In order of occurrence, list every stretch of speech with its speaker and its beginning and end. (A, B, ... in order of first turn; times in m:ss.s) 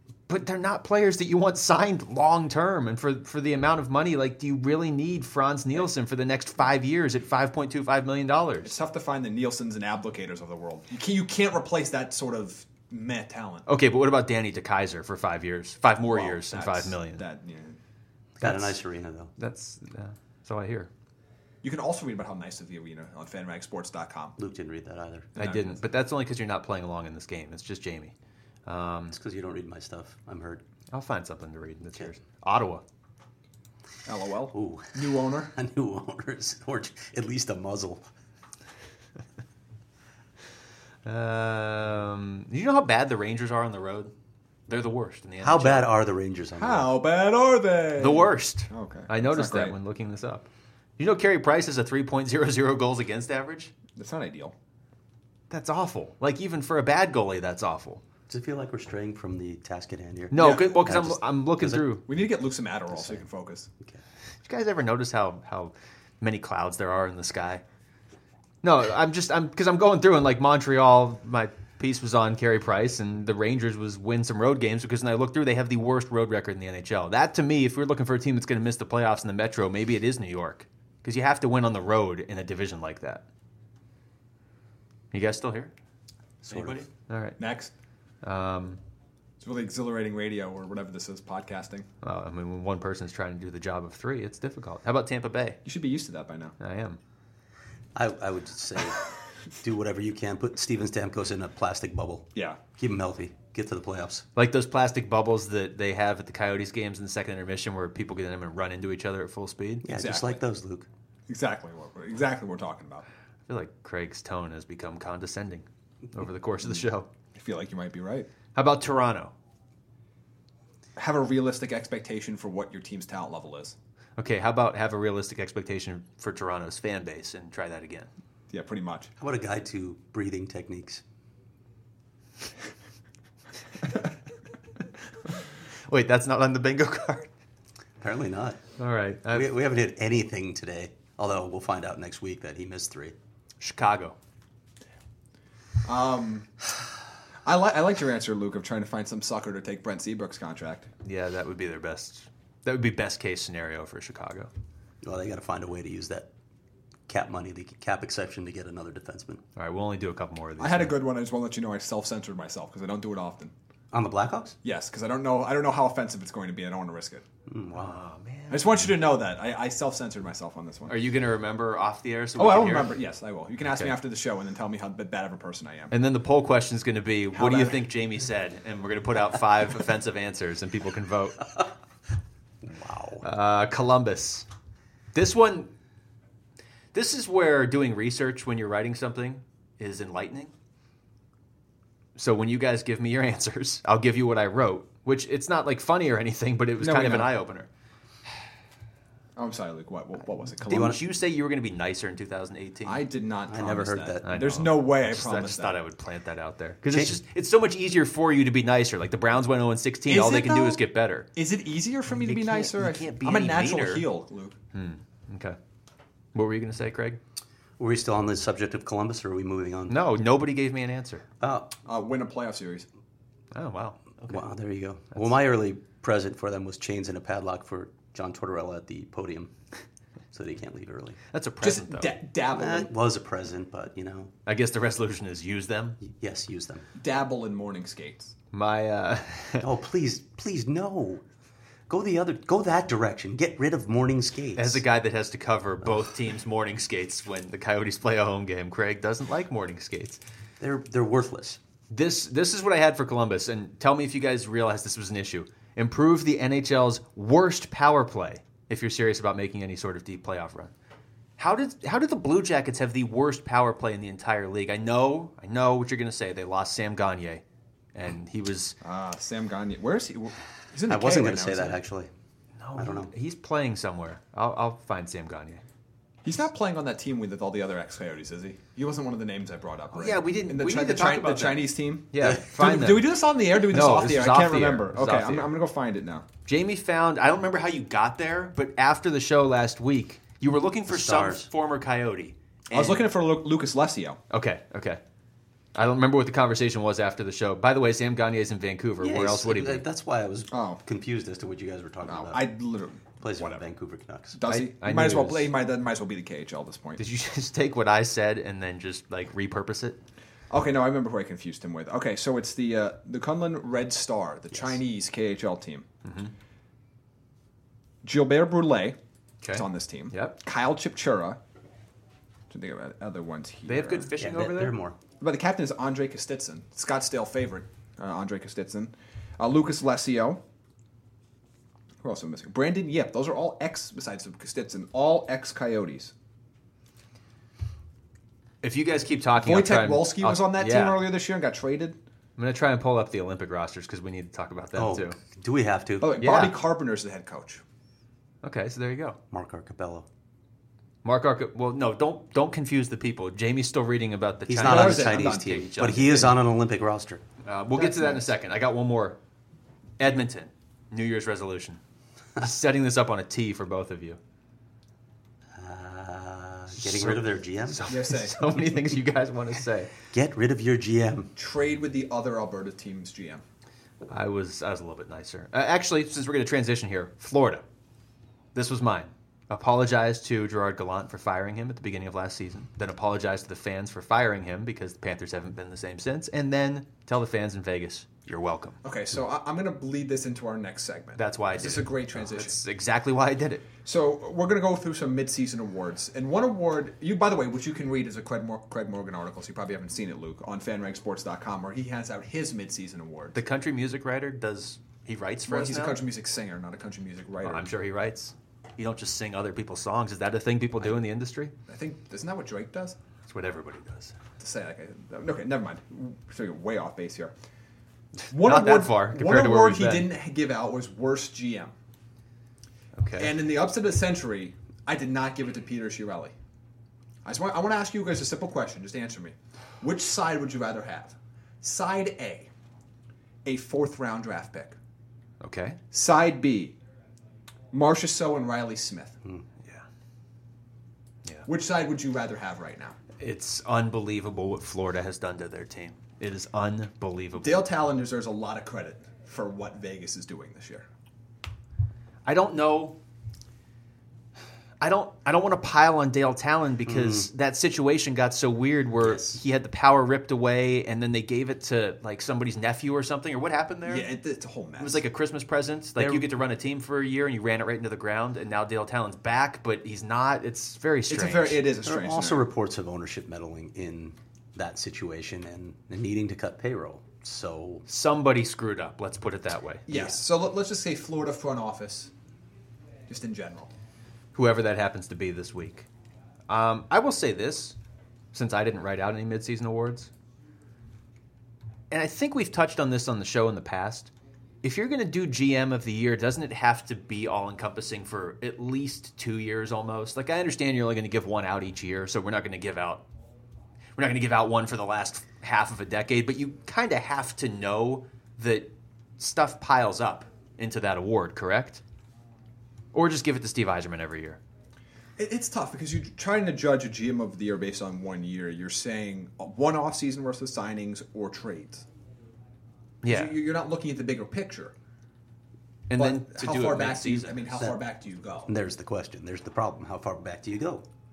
0:00.3-0:08.8 A
0:08.6-0:13.6 B
0:13.6-0:17.2 A
0:16.1-0:17.8 B
0:18.4-0:19.3 C
0:18.4-0:18.8 A
0:19.4-0:20.9 A
0:21.6-0:24.3 B
0:24.4-0:25.3 C
0:25.3-0:25.8 B
0:25.4-0:28.1 A
0:28.6-0:29.2 A
0:29.1-0:30.6 C
0:30.9-0:32.8 A
0:34.0-0:35.5 B
0:34.5-0:38.0 C
0:41.0-0:44.1 A
0:44.7-0:45.9 A
0:45.4-0:46.9 C
0:46.6-0:49.7 B
0:48.0-0:50.4 A
0:51.0-0:53.7 A
0:54.0-0:54.5 B
0:55.5-0:58.0 A
0:58.3-1:01.9 C
1:00.3-1:02.0 A
1:00.3-1:00.9 B
1:02.0-1:03.7 B
1:02.9-1:03.2 C
1:04.4-1:07.6 A
1:08.6-1:23.2 A
1:25.1-1:25.7 A
1:26.4-1:26.8 C
1:26.4-1:27.4 A
1:27.4-1:27.7 B
1:28.2-1:28.8 A
1:29.4-1:31.9 B
1:32.0-1:35.6 A
1:35.6-1:36.5 B
1:36.6-1:37.0 A
1:37.9-1:39.0 C
1:39.6-1:44.2 C
1:42.3-1:42.6 B
1:44.4-1:50.0 A
1:49.8-1:50.9 C
1:49.9-1:50.4 B
1:51.3-1:53.0 B
1:53.5-1:57.1 A
1:57.3-1:58.3 B
1:58.5-1:59.3 A
2:01.0-2:03.7 B
2:04.2-2:08.1 A
2:08.5-2:09.1 B
2:09.2-2:11.0 C
2:15.9-2:17.3 A
2:18.0-2:18.6 C
2:18.8-2:19.5 A
2:19.3-2:23.2 C
2:23.6-2:24.2 A
2:25.8-2:26.5 B
2:27.4-2:30.9 B
2:31.0-2:34.5 A
2:35.0-2:36.3 C
2:37.1-2:39.4 C
2:39.6-2:41.0 A
2:40.6-2:43.5 B
2:43.9-2:44.6 C
2:44.6-2:47.2 B
2:47.5-2:48.0 C
2:47.7-2:48.9 A
2:48.5-2:50.9 B
2:50.9-2:52.9 A
2:52.4-2:55.9 B
2:55.9-3:01.5 A
2:57.3-2:57.8 B
3:02.6-3:03.2 C
3:03.2-3:04.4 A
3:05.1-3:05.7 A
3:06.9-3:10.5 A
3:12.2-3:17.7 A
3:16.8-3:17.3 B
3:19.4-3:21.0 B
3:20.6-3:23.0 A
3:20.7-3:21.0 C
3:22.8-3:25.8 B
3:23.5-3:24.3 C
3:24.2-3:31.3 A
3:26.9-3:27.2 C
3:30.0-3:30.8 B
3:31.3-3:34.6 B
3:32.1-3:34.0 A
3:34.7-3:35.6 A
3:36.3-3:37.2 A
3:37.8-3:40.0 C
3:39.9-3:41.2 A
3:41.4-3:41.8 C
3:41.8-3:42.8 B
3:43.5-3:44.4 A
3:44.2-3:49.5 C
3:50.3-3:51.2 C
3:51.3-3:52.1 A
3:51.6-3:52.9 B
3:52.5-3:54.3 C
3:54.4-3:56.0 A
3:56.0-3:56.9 C
3:57.0-3:58.3 B
3:58.5-3:59.7 A
3:59.6-4:01.2 C
4:01.9-4:04.8 C
4:04.6-4:10.2 A
4:10.6-4:11.6 C
4:11.9-4:20.7 A
4:21.4-4:27.4 A
4:27.9-4:28.8 A
4:28.8-4:31.8 B
4:30.9-4:32.1 C
4:32.6-4:35.6 A
4:32.8-4:33.1 C
4:36.2-4:46.2 B
4:39.9-4:45.5 A
4:46.5-4:53.0 A
4:50.9-4:51.5 C
4:52.7-4:54.2 B
4:54.3-4:55.0 A
4:55.7-4:59.8 A
4:59.0-5:02.5 C
5:00.5-5:00.8 B
5:02.0-5:03.6 B
5:03.2-5:04.4 C
5:04.3-5:07.0 B
5:04.4-5:05.5 A
5:07.0-5:10.0 A
5:10.5-5:15.8 B
5:14.5-5:14.8 C
5:16.0-5:16.3 A
5:18.0-5:19.0 B
5:19.4-5:20.4 A
5:19.5-5:21.4 B
5:22.5-5:24.1 B
5:23.7-5:24.8 A
5:24.2-5:25.0 C
5:25.2-5:30.4 B
5:32.0-5:36.1 B
5:38.6-5:41.1 A
5:39.4-5:42.0 B
5:42.4-5:45.2 A
5:44.8-5:46.2 C
5:46.0-5:47.6 B
5:46.2-5:46.6 A
5:48.4-5:49.2 A
5:49.3-5:50.1 C
5:51.0-5:56.3 A
5:54.5-5:57.2 C
5:54.6-5:56.2 B
5:57.4-5:59.2 A
5:57.8-5:58.2 B
6:00.0-6:01.8 A
6:02.4-6:04.2 A
6:05.5-6:07.8 C
6:06.8-6:09.9 A
6:07.9-6:08.4 B
6:10.1-6:11.3 C
6:11.4-6:13.4 B
6:14.1-6:17.6 A
6:18.5-6:28.8 A
6:28.8-6:32.6 B
6:31.2-6:33.6 A
6:33.8-6:43.4 B
6:43.3-6:46.0 A
6:45.5-6:47.7 B
6:47.4-6:51.5 A
6:51.7-6:53.0 B
6:53.3-6:54.2 A
6:54.4-6:57.3 B
6:58.3-7:01.7 B
6:58.4-7:00.1 A
7:03.0-7:03.4 A
7:03.2-7:06.3 B
7:07.2-7:12.5 B
7:13.4-7:14.8 B
7:15.4-7:15.8 A
7:15.9-7:16.8 B
7:17.7-7:19.2 B
7:21.5-7:22.9 B
7:23.2-7:27.6 A
7:27.4-7:30.8 B
7:32.2-7:33.0 A
7:34.8-7:44.1 A
7:36.8-7:37.3 C
7:39.0-7:39.4 C
7:43.8-7:45.0 B
7:44.8-7:51.6 A
7:46.0-7:46.3 C
7:51.1-7:52.4 B
7:51.8-7:57.8 C
7:57.9-7:59.9 A
7:59.9-8:02.1 B
7:59.9-8:00.2 C
8:03.1-8:03.7 B
8:04.3-8:05.9 A
8:06.5-8:07.8 A
8:08.3-8:10.1 A
8:11.9-8:14.1 A
8:14.6-8:23.0 A
8:24.0-8:31.8 A
8:32.9-8:34.4 A
8:35.2-8:41.8 B
8:43.0-8:43.3 A
8:43.0-8:44.7 B
8:45.9-8:47.7 A
8:46.0-8:48.5 B
8:48.4-8:50.8 C